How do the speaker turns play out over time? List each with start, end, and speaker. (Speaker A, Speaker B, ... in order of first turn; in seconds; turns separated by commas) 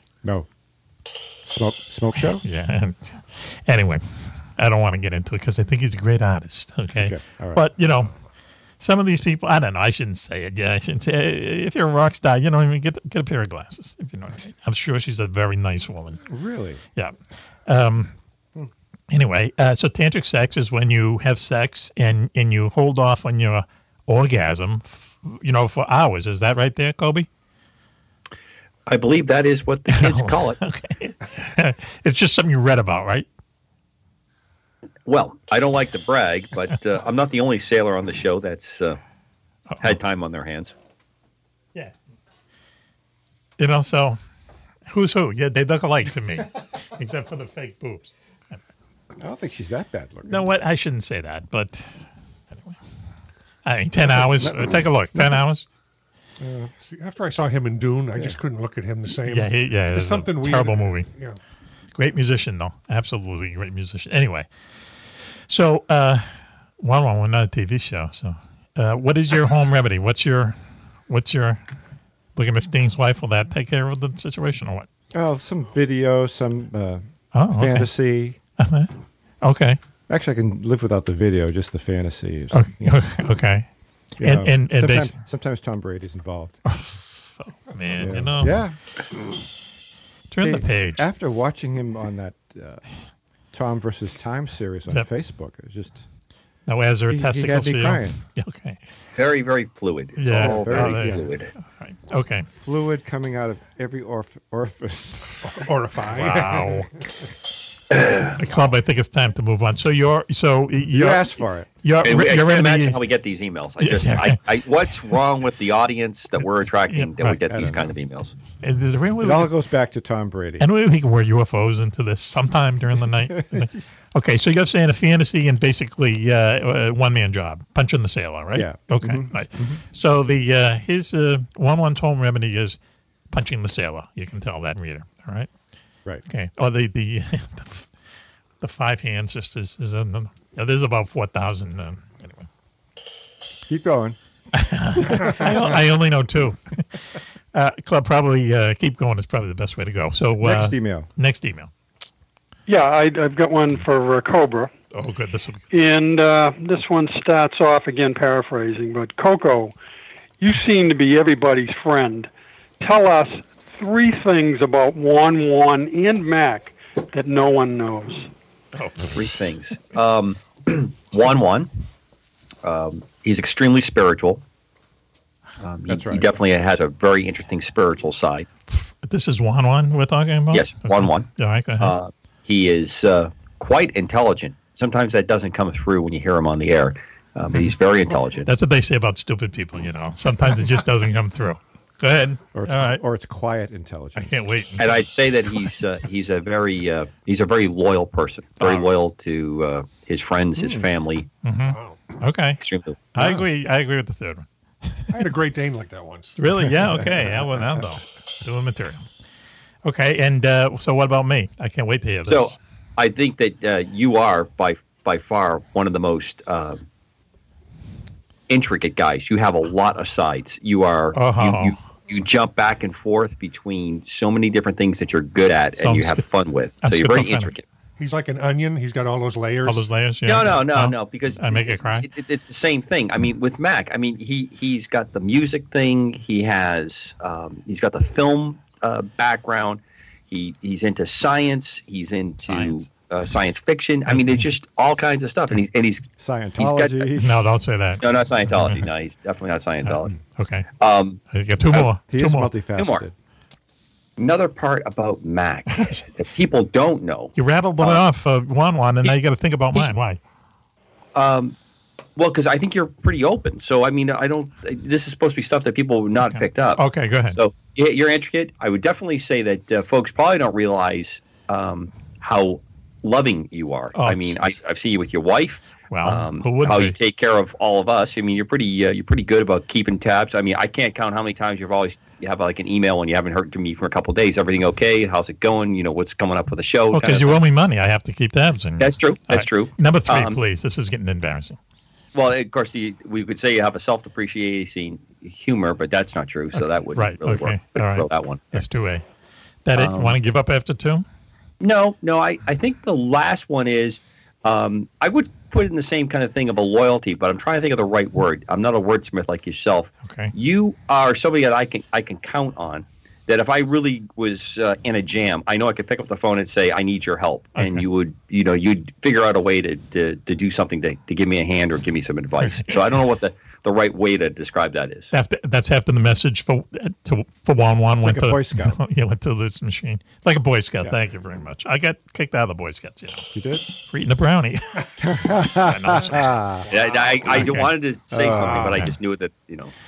Speaker A: 1.4-2.4, Speaker B: 2.4-8.1, Speaker A: 7.0-7.7, Speaker B: 8.8-16.2, Speaker A: 16.3-16.8, Speaker B: 17.7-18.1, Speaker B: 19.1-27.3, Speaker C: 28.9-30.6, Speaker B: 29.9-33.3, Speaker C: 35.1-39.0, Speaker B: 39.7-40.0, Speaker C: 39.8-40.8, Speaker B: 43.6-44.2, Speaker B: 44.9-48.6, Speaker A: 49.2-50.5, Speaker B: 50.3-52.0, Speaker B: 52.5-52.8, Speaker B: 53.6-55.7, Speaker A: 54.1-55.4, Speaker A: 56.4-56.7, Speaker D: 56.8-61.4, Speaker B: 59.3-61.1, Speaker B: 62.0-64.5, Speaker B: 65.5-71.6, Speaker B: 72.4-74.9, Speaker A: 75.1-78.4, Speaker B: 77.3-77.9, Speaker B: 78.6-79.8, Speaker A: 80.1-83.0, Speaker B: 82.5-83.7, Speaker A: 84.2-86.6, Speaker B: 84.2-85.2, Speaker B: 86.7-88.7, Speaker A: 88.0-88.8, Speaker B: 90.3-91.0, Speaker A: 90.4-92.8, Speaker A: 93.5-96.0, Speaker B: 96.7-98.8, Speaker A: 97.1-98.2, Speaker C: 99.2-101.5, Speaker B: 100.2-102.5, Speaker A: 100.3-101.3, Speaker A: 102.5-105.5, Speaker D: 105.5-106.9, Speaker B: 106.1-106.9, Speaker C: 107.9-108.4, Speaker B: 108.4-113.0, Speaker A: 110.9-111.7, Speaker C: 112.0-118.3, Speaker B: 113.8-114.4, Speaker B: 116.9-117.4, Speaker A: 117.5-117.9, Speaker B: 118.6-119.5, Speaker A: 119.2-120.7, Speaker B: 120.6-132.8, Speaker A: 123.0-123.8, Speaker A: 128.5-129.8, Speaker B: 133.3-135.5, Speaker B: 136.3-137.9, Speaker B: 138.6-142.5, Speaker A: 143.7-144.2, Speaker B: 144.5-151.7, Speaker A: 145.1-145.8, Speaker A: 150.4-151.1, Speaker E: 152.7-154.7, Speaker B: 154.9-155.6, Speaker E: 155.7-159.8, Speaker E: 160.4-168.3, Speaker B: 168.7-169.1, Speaker C: 169.0-171.7, Speaker C: 172.6-174.4, Speaker C: 175.6-178.5, Speaker A: 175.9-176.3, Speaker B: 179.0-181.9, Speaker C: 180.5-188.5, Speaker B: 188.4-193.0, Speaker A: 192.5-194.4, Speaker B: 194.2-195.0, Speaker C: 194.8-201.3, Speaker B: 198.6-198.9, Speaker A: 200.6-200.9, Speaker B: 201.4-202.6, Speaker D: 201.7-202.0, Speaker C: 202.6-203.0, Speaker B: 203.1-205.1, Speaker A: 203.2-203.4, Speaker D: 205.1-206.4, Speaker B: 206.4-209.1, Speaker A: 206.7-207.8, Speaker B: 209.8-212.6, Speaker C: 212.3-216.8, Speaker C: 218.5-227.6, Speaker B: 221.1-221.8, Speaker B: 225.8-226.3, Speaker B: 226.8-227.5, Speaker D: 228.0-229.9, Speaker B: 229.7-232.1, Speaker C: 230.3-247.2, Speaker B: 242.5-242.8, Speaker B: 244.1-244.4, Speaker A: 246.2-247.4, Speaker B: 247.2-248.9, Speaker C: 248.0-250.1, Speaker B: 249.8-250.7, Speaker C: 250.8-251.9, Speaker B: 251.3-252.5, Speaker A: 252.1-253.1, Speaker C: 252.8-253.1, Speaker C: 254.2-258.0, Speaker B: 255.8-256.0, Speaker B: 257.4-260.2, Speaker C: 261.1-261.6, Speaker C: 262.2-287.4, Speaker B: 266.2-267.4, Speaker B: 273.9-274.6, Speaker B: 275.9-277.0, Speaker B: 286.9-291.6, Speaker C: 288.8-290.4, Speaker C: 292.1-298.6, Speaker B: 296.6-299.0, Speaker B: 299.6-301.0, Speaker C: 299.8-300.2, Speaker C: 301.6-325.1, Speaker B: 310.0-310.3, Speaker B: 317.6-317.9, Speaker B: 322.4-322.8, Speaker B: 325.1-333.3, Speaker A: 328.0-328.8, Speaker A: 333.3-333.7, Speaker B: 333.8-337.7, Speaker A: 335.0-336.7, Speaker D: 336.7-337.3, Speaker C: 336.7-339.7, Speaker A: 338.1-338.9, Speaker B: 338.6-338.9